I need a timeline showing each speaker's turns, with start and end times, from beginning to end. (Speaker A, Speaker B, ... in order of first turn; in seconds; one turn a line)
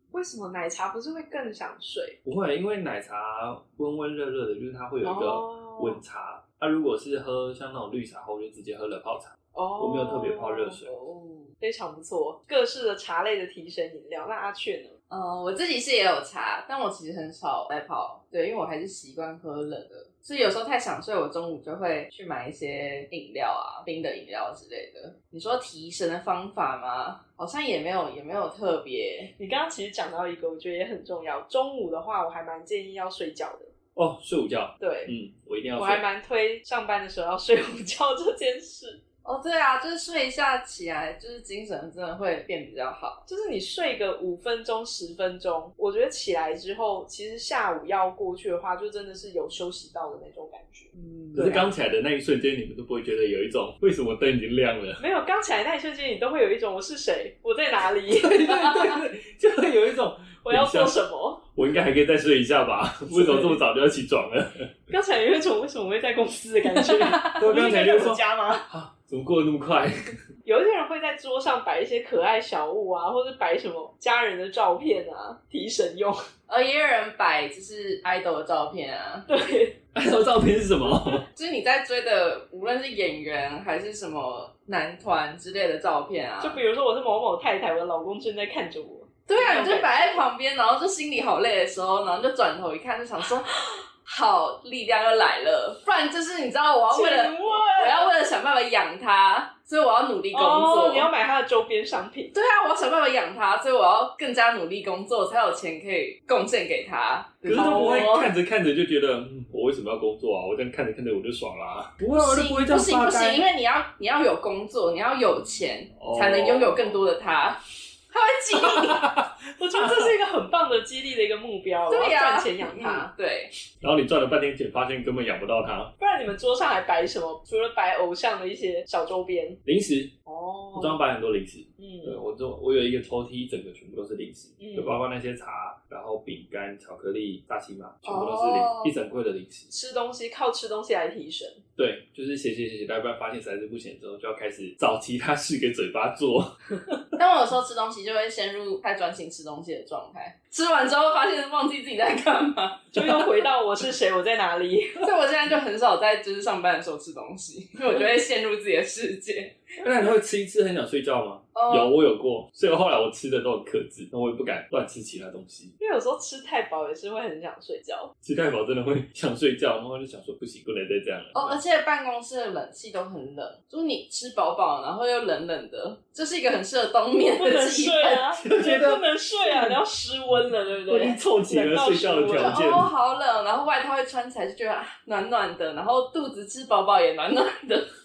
Speaker A: 0.1-2.2
Speaker B: 2.2-10.9
Speaker A: 5.0-6.0
Speaker A: 9.5-10.8
Speaker C: 10.9-11.5
Speaker A: 11.6-15.0
Speaker C: 15.1-29.3
Speaker A: 29.4-33.7
Speaker B: 34.0-36.0
Speaker A: 34.8-35.1
Speaker A: 35.8-39.0
Speaker C: 39.2-43.2
Speaker A: 43.3-51.7
Speaker B: 51.3-55.0
Speaker A: 55.0-59.0
Speaker B: 58.1-61.0
Speaker A: 60.4-61.4
Speaker B: 61.5-64.7
Speaker A: 63.1-63.6
Speaker A: 64.9-68.7
Speaker C: 67.1-67.4
Speaker B: 67.2-70.2
Speaker A: 70.5-76.2
Speaker C: 76.5-79.3
Speaker A: 79.3-79.8
Speaker B: 79.9-81.2
Speaker C: 81.3-86.6
Speaker A: 86.4-90.2
Speaker C: 89.3-93.5
Speaker C: 94.0-101.1
Speaker A: 96.9-98.1
Speaker A: 100.3-102.3
Speaker C: 102.3-108.2
Speaker B: 107.5-113.5
Speaker A: 107.5-108.3
Speaker C: 112.2-119.0
Speaker B: 116.0-117.0
Speaker B: 118.6-120.1
Speaker A: 119.6-123.1
Speaker C: 121.9-123.5
Speaker B: 123.8-125.9
Speaker A: 126.0-129.6
Speaker B: 129.7-130.1
Speaker A: 130.3-131.0
Speaker B: 130.8-139.7
Speaker A: 131.8-132.2
Speaker A: 134.6-135.0
Speaker C: 138.0-138.9
Speaker A: 139.7-141.6
Speaker B: 141.8-146.6
Speaker C: 147.2-153.3
Speaker A: 152.9-155.0
Speaker C: 155.0-159.6
Speaker B: 159.8-165.8
Speaker C: 161.6-161.9
Speaker A: 165.8-168.1
Speaker B: 168.2-171.6
Speaker C: 171.3-178.2
Speaker A: 177.4-182.5
Speaker B: 178.3-179.8
Speaker B: 180.9-182.9
Speaker C: 182.4-187.9